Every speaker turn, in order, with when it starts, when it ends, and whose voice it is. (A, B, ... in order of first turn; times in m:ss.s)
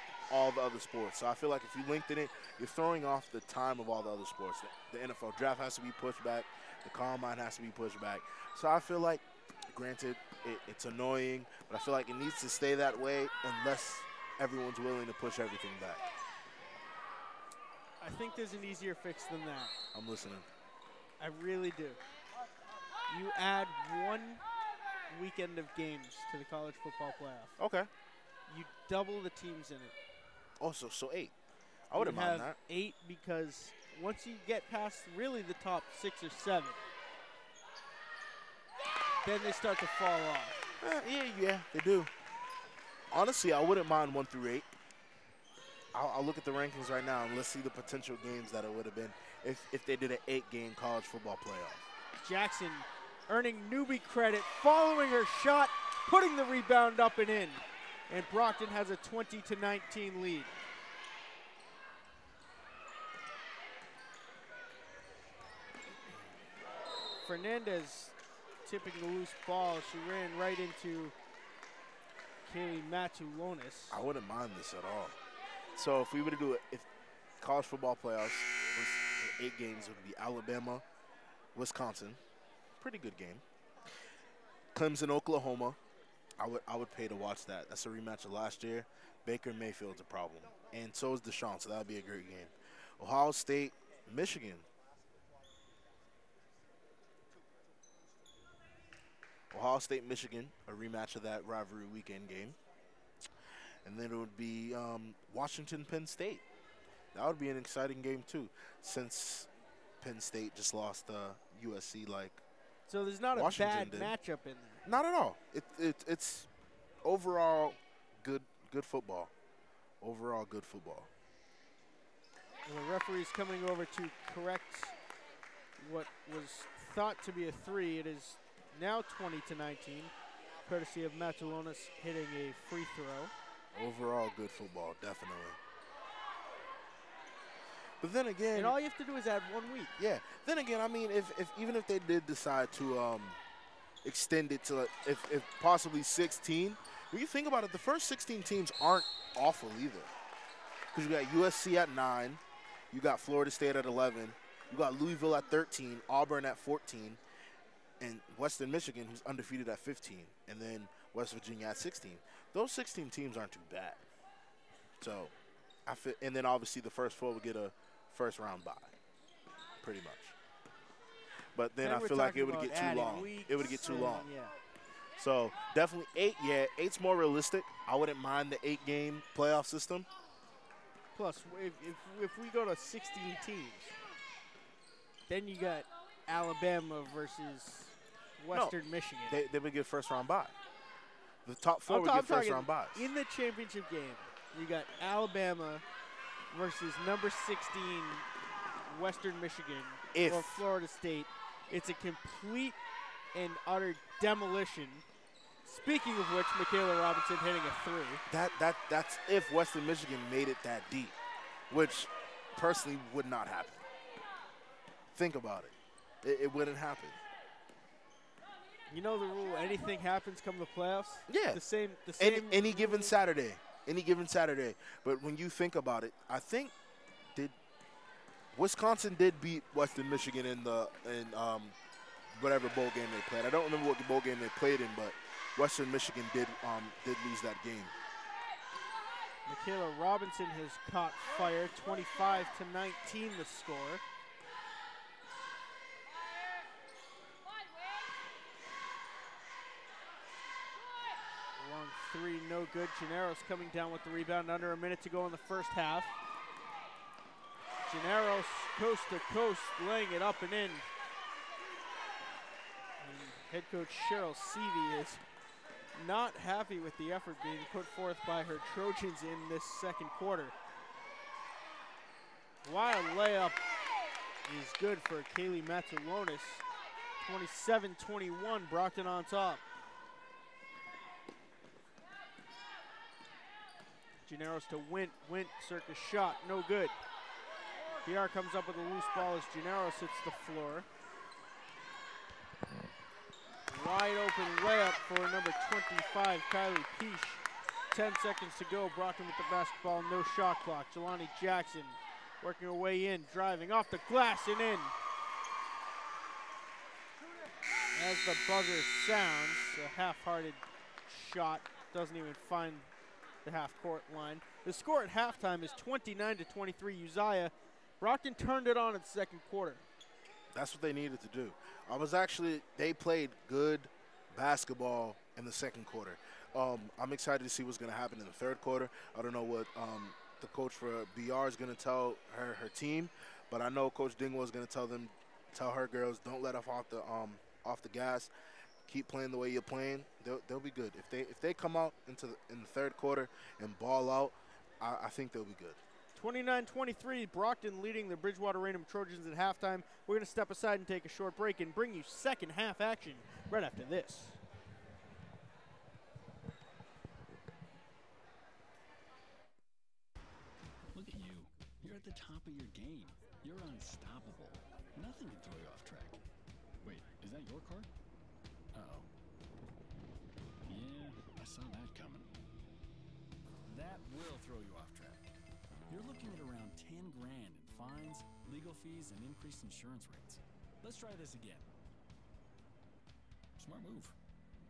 0:00.3-0:16.0 A
0:18.0-0:19.7 B
0:19.9-0:20.5 A
0:21.2-0:22.0 B
0:23.1-0:24.4 B
0:25.1-0:27.6 B
0:27.6-0:27.9 A
0:28.5-0:29.9 B
0:30.6-0:31.3 A
0:31.9-0:32.6 A
0:31.9-0:36.8 B
0:39.2-0:40.6 B
0:40.8-0:42.1 A
0:43.1-0:44.7 A
0:45.9-0:51.8 A
0:52.2-1:00.5 B
1:07.2-1:11.1 B
1:12.4-1:14.0 B
1:13.9-1:15.2 A
1:15.7-1:16.9 A
1:17.4-1:20.8 A
1:21.5-1:22.2 A
1:22.8-1:23.4 A
1:24.7-1:25.8 A
1:26.4-1:34.6 A
1:39.5-1:42.6 A
1:43.8-1:46.4 A
1:47.1-1:49.5 A
1:50.0-1:52.4 A
1:52.9-1:54.8 B
1:53.3-1:54.1 A
1:54.8-1:56.5 A
1:57.0-1:59.3 A
2:00.0-2:01.1 A
2:02.6-2:04.9 B
2:05.8-2:10.1 B
2:10.6-2:13.3 B
2:13.7-2:15.6 A
2:18.0-2:18.8 A
2:18.5-2:19.9 B
2:20.0-2:23.4 A
2:24.0-2:30.1 A
2:30.9-2:37.2 A
2:38.0-2:44.0 A
2:45.0-2:45.3 A
2:45.8-2:49.0 A
2:49.8-2:50.4 A
2:51.5-2:54.3 A
2:51.8-2:54.5 B
2:55.2-3:00.1 A
3:01.1-3:04.0 B
3:05.3-3:09.4 B
3:09.3-3:10.5 A
3:11.4-3:13.1 A
3:11.9-3:15.8 B
3:16.5-3:18.3 B
3:18.8-3:22.8 B
3:20.1-3:20.6 A
3:23.3-3:25.0 B
3:25.6-3:28.2 B
3:28.3-3:31.2 A
3:31.7-3:33.9 A
3:35.1-3:37.2 A
3:38.9-3:43.1 B
3:41.3-3:41.6 A
3:42.2-3:46.7 A
3:48.5-3:51.7 A
3:52.4-3:57.9 A
3:59.5-4:04.0 B
4:11.6-4:16.2 B
4:17.8-4:20.9 B
4:23.0-4:25.2 B
4:25.9-4:30.5 B
4:32.6-4:33.6 B
4:34.4-4:36.6 B
4:37.2-4:39.6 B
4:44.2-4:47.0 B
4:48.0-4:50.9 B
4:53.7-5:04.9 B
5:07.9-5:12.9 B
5:13.4-5:19.8 B
5:20.5-5:38.3 A
5:38.8-5:45.8 A
5:46.1-5:54.4 B
6:00.9-6:06.2 C
6:06.8-6:07.9 C
6:08.7-6:09.1 C
6:10.6-6:12.3 C
6:13.7-6:15.2 C
6:15.9-6:21.7 C
6:23.6-6:24.1 C